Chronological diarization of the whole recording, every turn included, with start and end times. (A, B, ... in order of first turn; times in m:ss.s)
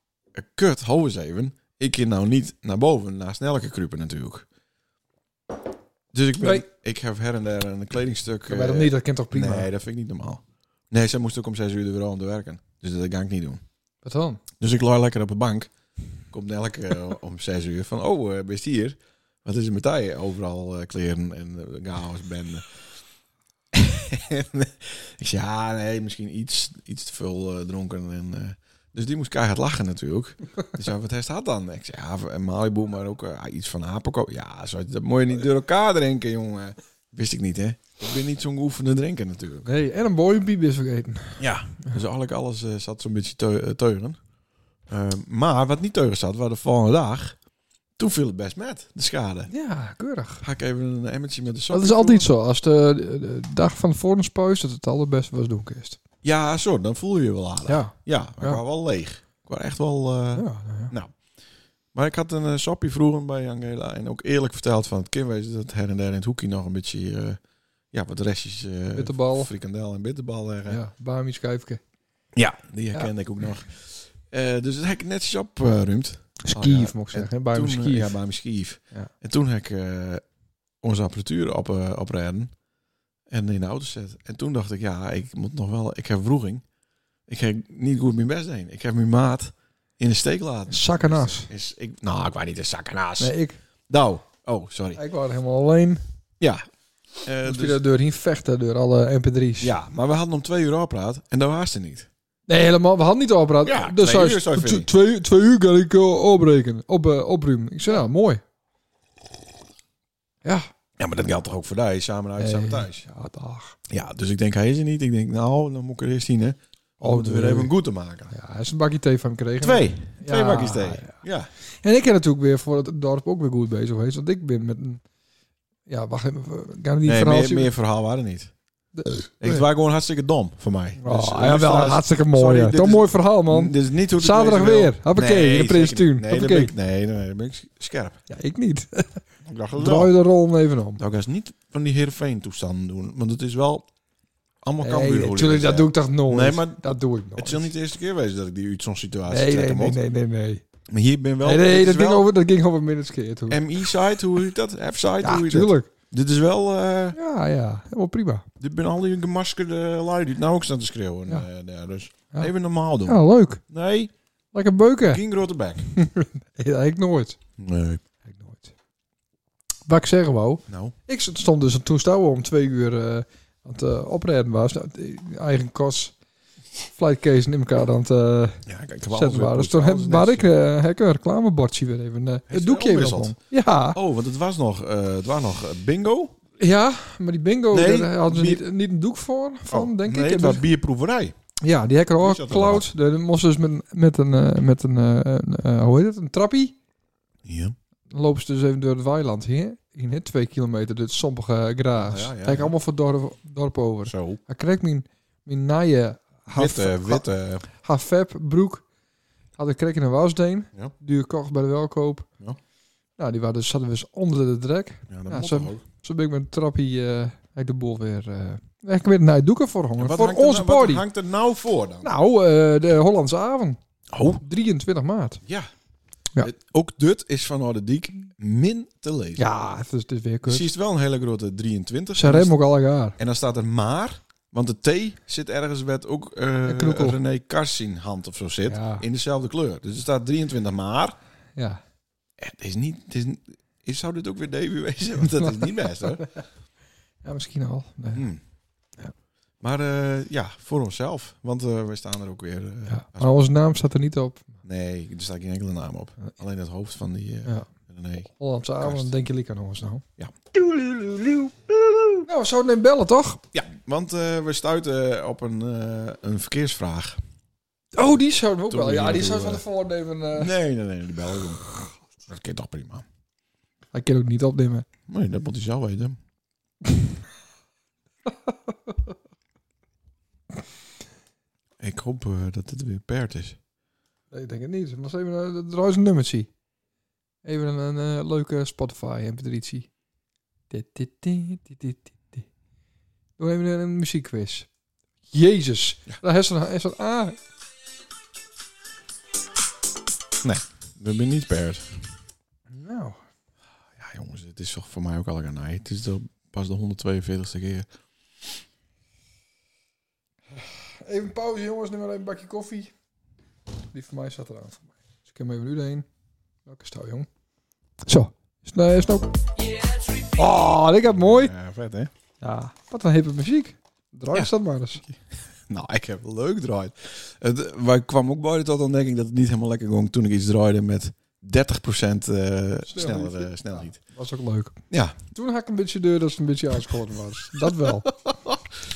0:00.3-0:04.5 A
0:06.1-0:13.6 A
0:08.5-0:09.7 B
0:14.0-0:14.4 B
0:14.6-0:15.7 A
0:16.3-0:22.7 A
0:23.7-0:39.7 A
0:39.7-0:41.4 B
0:41.4-0:44.2 A
0:44.9-0:47.4 A
0:48.0-0:49.5 A
0:49.5-0:50.4 B
0:50.4-0:52.3 A
0:51.7-0:56.0 B
0:56.2-1:01.1 A
0:57.7-0:58.6 B
1:00.4-1:00.9 B
1:01.9-1:07.4 A
1:07.9-1:10.8 A
1:09.0-1:09.5 B
1:10.7-1:11.8 B
1:12.4-1:20.2 A
1:16.4-1:18.2 B
1:20.8-1:22.5 A
1:23.3-1:26.6 A
1:27.3-1:33.3 A
1:30.7-1:31.5 B
1:33.2-1:33.6 B
1:33.9-1:35.0 A
1:35.0-1:36.0 B
1:37.2-1:37.8 A
1:37.4-1:39.7 B
1:39.6-1:42.1 A
1:42.5-1:48.4 B
1:43.6-1:44.9 A
1:51.0-1:53.1 A
1:52.4-1:53.8 B
1:53.9-1:58.3 A
1:57.0-1:57.7 B
1:58.3-2:01.2 B
1:59.6-2:01.5 A
2:01.8-2:05.0 B
2:05.9-2:07.7 B
2:07.0-2:08.5 A
2:09.0-2:09.6 B
2:09.4-2:18.2 A
2:11.0-2:16.7 B
2:18.3-2:19.2 B
2:19.4-2:20.1 A
2:19.8-2:21.0 B
2:21.0-2:23.9 A
2:24.6-2:26.8 A
2:24.8-2:27.7 B
2:27.4-2:30.0 A
2:29.3-2:30.6 B
2:30.9-2:32.3 A
2:31.4-2:33.7 B
2:33.5-2:37.2 A
2:35.2-2:35.9 B
2:37.2-2:38.5 B
2:38.6-2:44.1 A
2:43.1-2:43.6 B
2:44.5-2:45.2 B
2:45.1-2:45.9 A
2:45.9-2:47.4 B
2:47.6-2:48.0 A
2:48.2-2:48.7 B
2:49.9-2:56.1 B
2:50.7-2:51.0 A
2:56.8-3:04.0 B
2:58.7-3:00.5 A
3:02.5-3:03.3 A
3:03.9-3:06.4 A
3:06.6-3:10.6 B
3:07.7-3:08.6 A
3:09.7-3:11.4 A
3:11.6-3:16.7 B
3:12.2-3:12.9 A
3:17.4-3:17.8 A
3:18.1-3:27.2 B
3:22.0-3:22.7 A
3:24.1-3:24.4 A
3:26.5-3:27.7 A
3:27.8-3:28.8 B
3:29.6-3:32.3 B
3:33.2-3:41.0 B
3:35.1-3:35.8 A
3:40.0-3:42.1 A
3:42.0-3:43.8 B
3:44.1-3:44.4 A
3:44.4-3:45.4 B
3:46.4-3:49.5 A
3:49.4-3:50.7 B
3:50.5-3:52.5 A
3:52.2-3:53.2 B
3:53.2-4:01.2 A
3:56.7-3:57.2 B
3:58.7-3:59.0 B
4:02.4-4:06.3 A
4:07.2-4:08.2 B
4:08.1-4:08.4 A
4:09.6-4:13.3 A
4:12.9-4:14.6 B
4:14.6-4:19.1 A
4:18.4-4:20.0 B
4:20.2-4:22.3 A
4:22.3-4:23.4 B
4:23.5-4:27.2 A
4:28.0-4:30.5 B
4:28.7-4:29.6 A
4:30.3-4:31.6 A
4:32.3-4:33.0 A
4:33.9-4:34.9 B
4:35.1-4:36.2 A
4:41.8-4:43.6 A
4:44.3-4:46.5 B
4:47.4-4:49.9 B
4:50.7-4:52.5 B
4:53.4-4:54.7 B
4:55.3-4:57.4 B
5:00.4-5:01.9 A
5:02.7-5:03.2 B
5:04.0-5:07.9 A
5:10.6-5:12.9 B
5:13.9-5:16.1 B
5:16.7-5:17.3 B
5:18.1-5:19.3 B
5:20.2-5:21.5 B
5:21.2-5:22.1 A
5:22.4-5:25.0 B
5:25.7-5:34.0 A
5:32.9-5:34.8 B
5:34.9-5:35.2 A
5:35.3-5:38.1 B